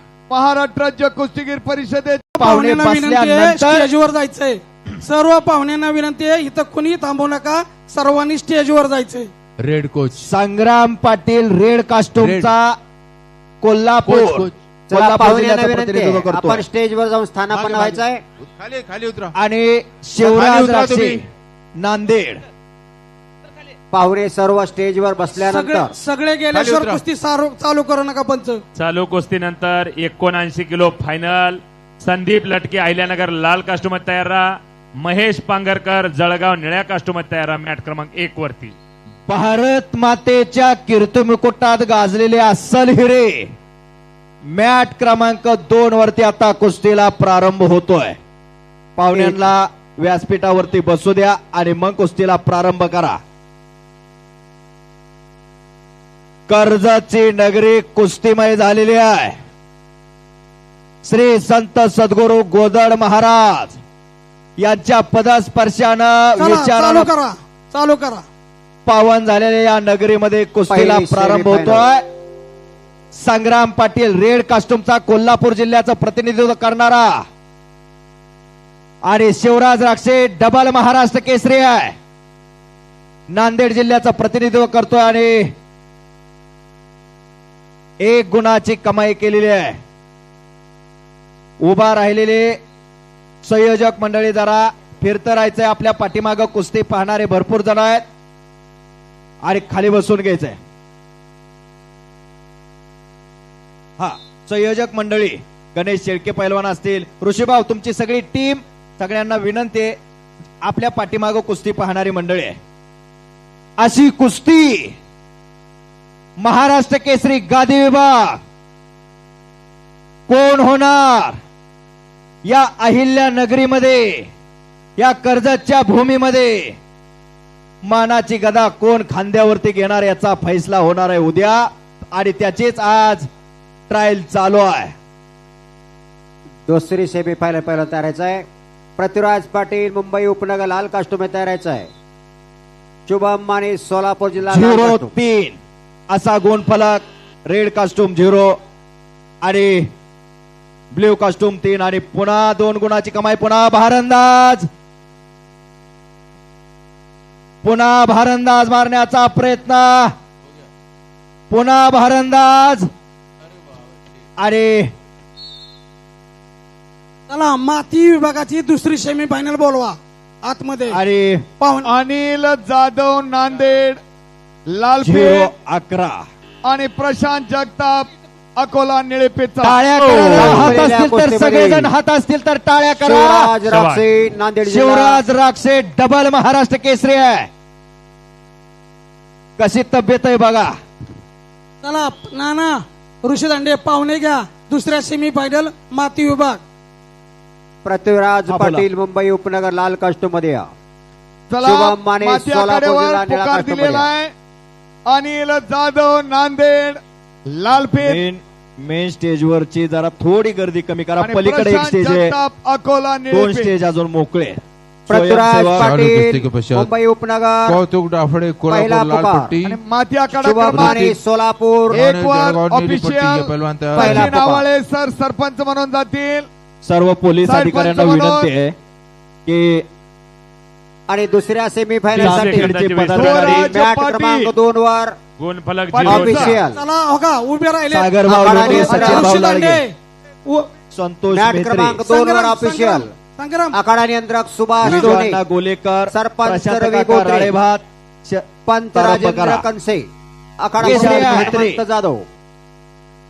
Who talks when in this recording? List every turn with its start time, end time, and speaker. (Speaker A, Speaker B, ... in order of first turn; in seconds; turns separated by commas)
Speaker A: 0.3-2.3, Speaker B: 2.4-9.3, Speaker C: 2.4-3.9, Speaker D: 9.6-10.2, Speaker C: 10.2-12.8, Speaker D: 12.2-12.5, Speaker C: 13.6-16.6, Speaker D: 14.1-14.5, Speaker E: 14.9-18.2, Speaker D: 17.5-18.0, Speaker D: 18.5-19.3, Speaker C: 19.4-21.2, Speaker D: 20.3-21.2, Speaker C: 21.8-22.4, Speaker E: 23.9-25.9, Speaker B: 25.4-28.6, Speaker D: 26.5-27.0, Speaker F: 28.8-34.5, Speaker F: 35.0-38.8, Speaker C: 39.3-43.5, Speaker C: 44.5-48.2, Speaker C: 49.0-53.2, Speaker E: 49.1-49.4, Speaker C: 56.5-59.4, Speaker C: 61.0-63.8, Speaker C: 64.6-67.1, Speaker B: 66.4-68.2, Speaker C: 68.9-72.0, Speaker E: 70.7-71.8, Speaker C: 73.1-77.2, Speaker C: 79.1-82.0, Speaker C: 83.3-85.5, Speaker C: 88.0-89.8, Speaker C: 91.6-92.6, Speaker C: 93.4-98.0, Speaker C: 99.5-100.6, Speaker C: 104.0-110.0, Speaker C: 110.6-112.5, Speaker C: 113.8-114.9, Speaker C: 116.4-118.4, Speaker C: 120.3-121.4, Speaker C: 122.5-124.3, Speaker C: 125.0-126.7, Speaker C: 127.9-133.3, Speaker C: 133.9-134.9, Speaker E: 136.7-138.4, Speaker E: 139.0-141.9, Speaker E: 143.1-145.1, Speaker C: 144.5-145.6, Speaker C: 146.1-148.6, Speaker C: 149.4-149.9, Speaker C: 150.9-154.7, Speaker C: 157.6-160.1, Speaker C: 161.5-162.9, Speaker C: 164.4-164.9, Speaker B: 167.3-171.0, Speaker C: 170.9-171.4, Speaker B: 171.6-171.9, Speaker A: 171.8-174.0, Speaker A: 174.7-175.5, Speaker C: 175.0-176.2, Speaker A: 176.7-180.7, Speaker C: 179.6-183.6, Speaker F: 180.0-180.6, Speaker E: 180.3-181.9, Speaker E: 183.0-185.2, Speaker F: 183.7-184.0, Speaker C: 184.7-187.5, Speaker C: 189.6-190.7, Speaker B: 191.8-192.7, Speaker B: 193.2-196.6, Speaker E: 197.8-200.7, Speaker C: 198.5-198.8, Speaker A: 201.5-204.3, Speaker E: 201.6-204.1, Speaker A: 205.1-208.2, Speaker C: 208.0-212.3, Speaker A: 211.2-213.7, Speaker C: 213.3-215.9, Speaker E: 215.1-217.8, Speaker D: 215.8-216.9, Speaker D: 217.7-219.7, Speaker E: 218.7-219.6, Speaker A: 219.6-221.0, Speaker E: 220.3-222.0, Speaker D: 220.7-221.2, Speaker D: 221.9-224.4, Speaker A: 221.9-226.5, Speaker E: 224.0-224.7, Speaker C: 226.8-228.7, Speaker A: 227.4-228.5, Speaker C: 229.5-229.8, Speaker E: 231.1-232.7, Speaker C: 232.1-233.7, Speaker F: 232.1-233.7, Speaker A: 233.1-234.5, Speaker E: 233.6-235.2, Speaker F: 235.4-236.6, Speaker A: 235.9-236.6, Speaker E: 236.0-236.8, Speaker B: 236.8-239.9, Speaker C: 237.9-239.8, Speaker E: 238.3-239.4, Speaker C: 240.9-242.0, Speaker E: 241.3-243.1, Speaker B: 242.1-243.8, Speaker E: 243.7-245.4, Speaker C: 244.8-249.7, Speaker E: 246.1-247.6, Speaker E: 248.7-250.1, Speaker E: 250.6-252.2, Speaker C: 250.8-251.8